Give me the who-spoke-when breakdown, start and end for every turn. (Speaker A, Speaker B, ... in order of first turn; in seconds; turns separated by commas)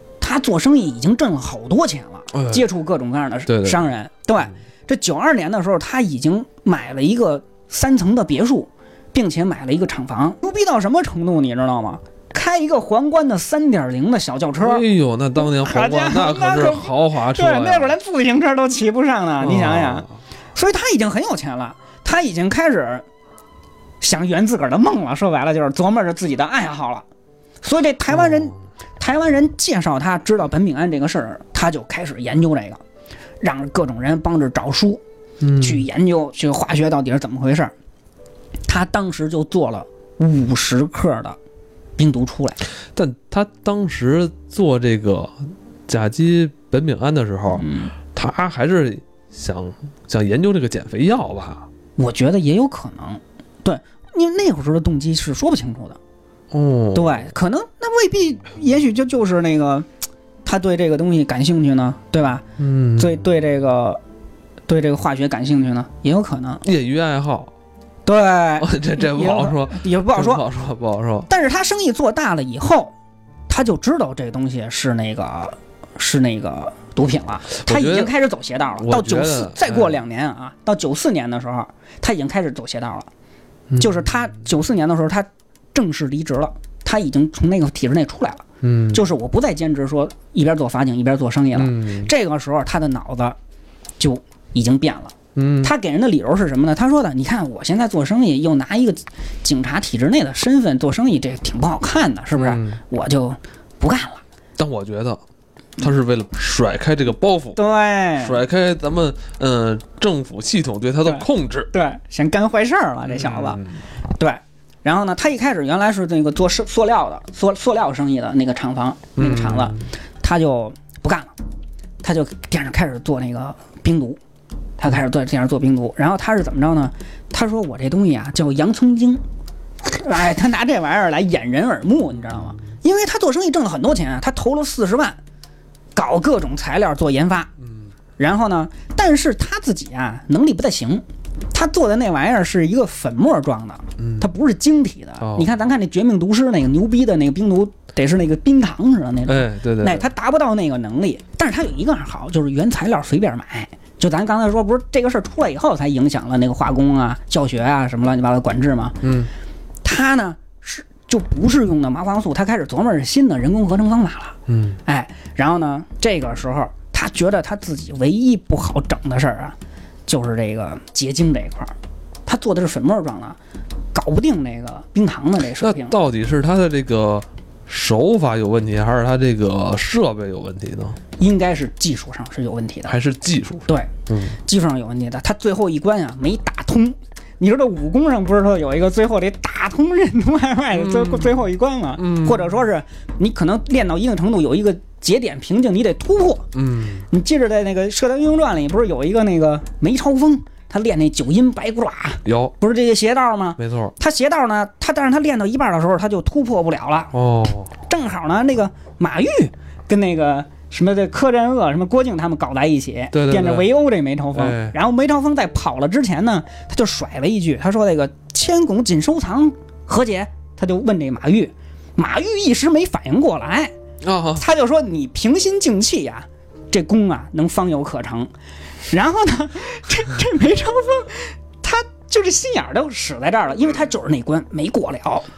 Speaker A: 0.2-14.8, Speaker B: 2.3-2.6, Speaker B: 3.5-3.8, Speaker B: 14.6-17.9, Speaker A: 15.4-23.0, Speaker B: 19.4-20.1, Speaker A: 24.0-27.0, Speaker A: 27.6-32.8, Speaker B: 28.1-28.4, Speaker A: 33.4-35.0, Speaker B: 35.4-35.9, Speaker A: 35.6-37.7, Speaker A: 38.7-41.4, Speaker A: 42.0-42.6, Speaker B: 42.9-51.7, Speaker A: 47.5-47.9, Speaker A: 52.0-56.0, Speaker B: 56.5-57.3, Speaker A: 56.9-59.9, Speaker A: 60.4-62.4, Speaker B: 62.6-63.1, Speaker A: 63.0-64.0, Speaker A: 64.7-66.6, Speaker B: 66.6-67.5, Speaker A: 68.0-70.4, Speaker B: 68.6-71.3, Speaker A: 71.3-72.9, Speaker A: 73.5-83.1, Speaker B: 77.5-78.1, Speaker B: 78.8-79.9, Speaker B: 83.7-84.0, Speaker A: 83.8-93.4, Speaker B: 88.6-89.0, Speaker B: 91.5-92.1, Speaker A: 94.0-104.2, Speaker B: 95.3-95.7, Speaker B: 102.3-102.8, Speaker B: 104.6-105.2, Speaker B: 105.8-107.6, Speaker A: 107.5-108.4, Speaker B: 108.2-111.7, Speaker A: 111.0-113.6, Speaker B: 113.0-113.8, Speaker A: 114.1-121.3, Speaker B: 119.2-119.9, Speaker A: 122.0-124.2, Speaker A: 124.8-129.2, Speaker A: 129.8-135.2, Speaker A: 135.9-137.5, Speaker A: 138.2-159.0, Speaker B: 144.0-144.3, Speaker B: 145.2-145.5, Speaker B: 149.3-150.1, Speaker B: 159.0-159.3, Speaker A: 159.8-169.6, Speaker B: 164.5-164.8, Speaker A: 170.1-171.7, Speaker A: 172.2-173.4, Speaker A: 173.9-176.0, Speaker B: 175.6-181.0, Speaker A: 181.2-182.9, Speaker B: 182.9-184.4, Speaker A: 183.7-196.5, Speaker B: 190.7-191.4, Speaker B: 192.0-192.6, Speaker B: 196.5-197.1, Speaker A: 197.1-207.1, Speaker B: 202.2-202.5, Speaker B: 203.6-203.9, Speaker B: 207.1-207.7, Speaker A: 207.8-223.7, Speaker B: 213.1-213.7, Speaker B: 214.3-214.7, Speaker B: 224.0-224.4, Speaker A: 224.3-228.3, Speaker A: 228.9-235.3